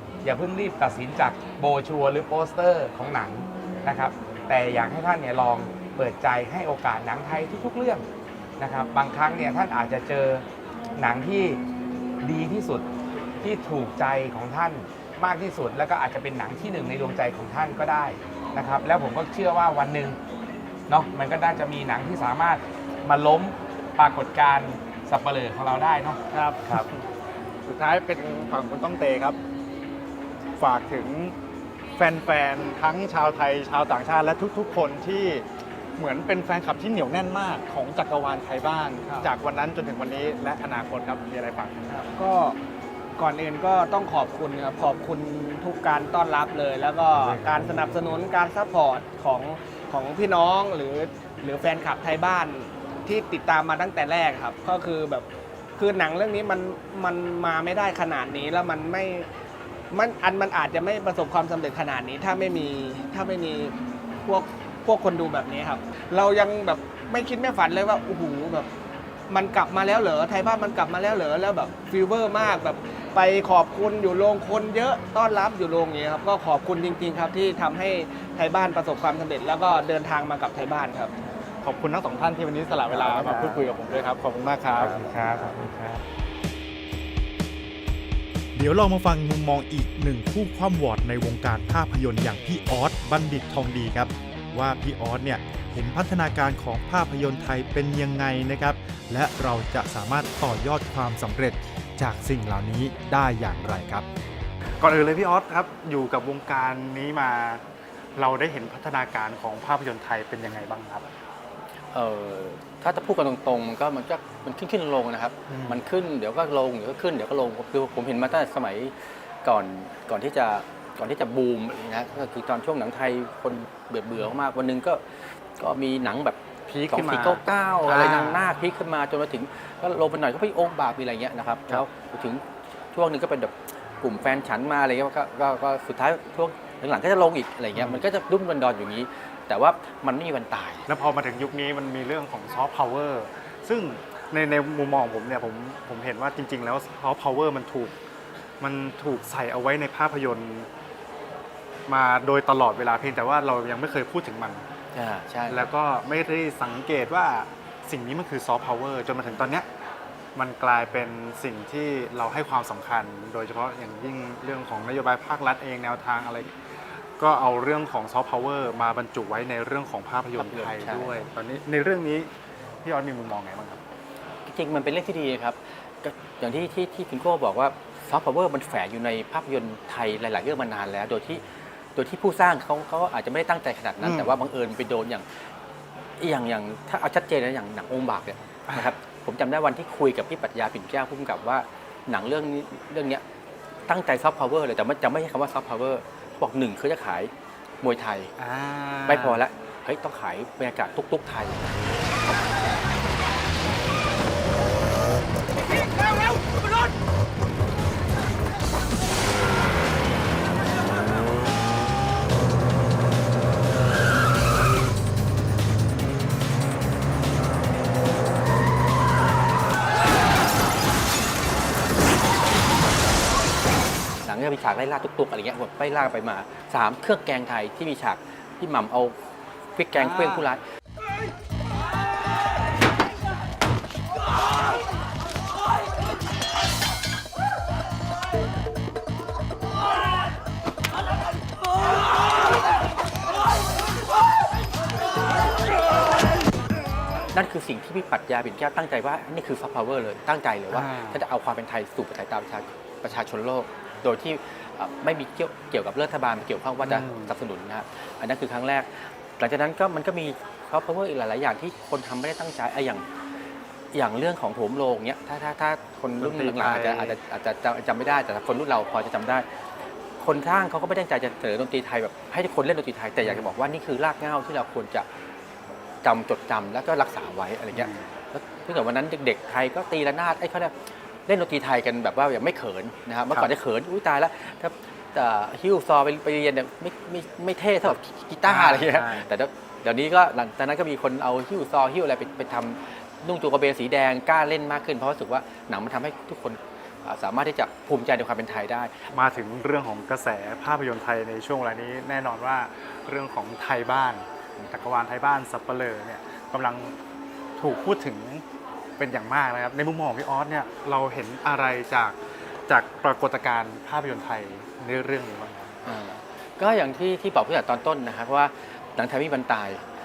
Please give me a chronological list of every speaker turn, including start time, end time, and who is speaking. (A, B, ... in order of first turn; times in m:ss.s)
0:00.2-0:08.0 A
0:08.6-0:10.4 A
0:11.0-0:11.6 A
0:12.2-0:12.9 A
0:13.4-0:20.2 A
0:20.9-0:26.9 A
0:26.3-0:27.0 B
0:27.7-0:29.4 B
0:30.6-0:31.4 B
0:32.0-0:35.5 B
0:36.0-0:41.9 B
0:41.9-0:42.6 C
0:43.2-0:55.3 C
0:47.2-0:47.9 B
0:55.8-0:59.3 C
0:59.9-1:03.7 C
1:04.3-1:08.7 C
1:09.3-1:21.1 C
1:21.6-1:25.5 B
1:22.9-1:23.6 A
1:24.8-1:26.0 A
1:28.6-1:44.1 D
1:44.8-1:47.6 B
1:48.2-1:51.1 B
1:51.9-1:58.9 E
1:55.5-1:55.8 B
1:59.4-2:05.0 E
2:05.6-2:12.4 E
2:06.7-2:08.5 B
2:12.9-2:20.9 E
2:17.8-2:18.0 B
2:20.9-2:28.0 B
2:28.6-2:30.7 B
2:31.9-2:34.6 B
2:34.9-2:35.7 E
2:35.5-2:39.7 B
2:40.4-2:46.5 B
2:47.2-2:52.3 B
2:50.4-2:51.1 E
2:52.8-2:53.8 B
2:54.5-3:01.4 E
3:02.0-3:05.2 E
3:04.0-3:04.4 B
3:06.2-3:13.2 E
3:13.9-3:17.3 E
3:17.8-3:18.3 E
3:18.4-3:19.4 B
3:19.1-3:21.8 E
3:44.2-3:49.2 E
3:49.8-3:50.6 E
3:50.0-3:50.4 B
4:07.3-4:23.0 E
4:10.7-4:11.2 B
4:16.8-4:17.3 B
4:23.9-4:29.4 E
4:26.2-4:27.2 B
4:30.2-4:35.1 E
4:33.2-4:33.5 B
4:36.0-4:40.7 E
4:37.7-4:38.1 B
4:41.3-4:58.9 E
4:48.5-4:49.3 B
4:59.1-5:06.9 B
5:07.6-5:08.4 B
5:09.0-5:15.7 B
5:15.8-5:19.8 E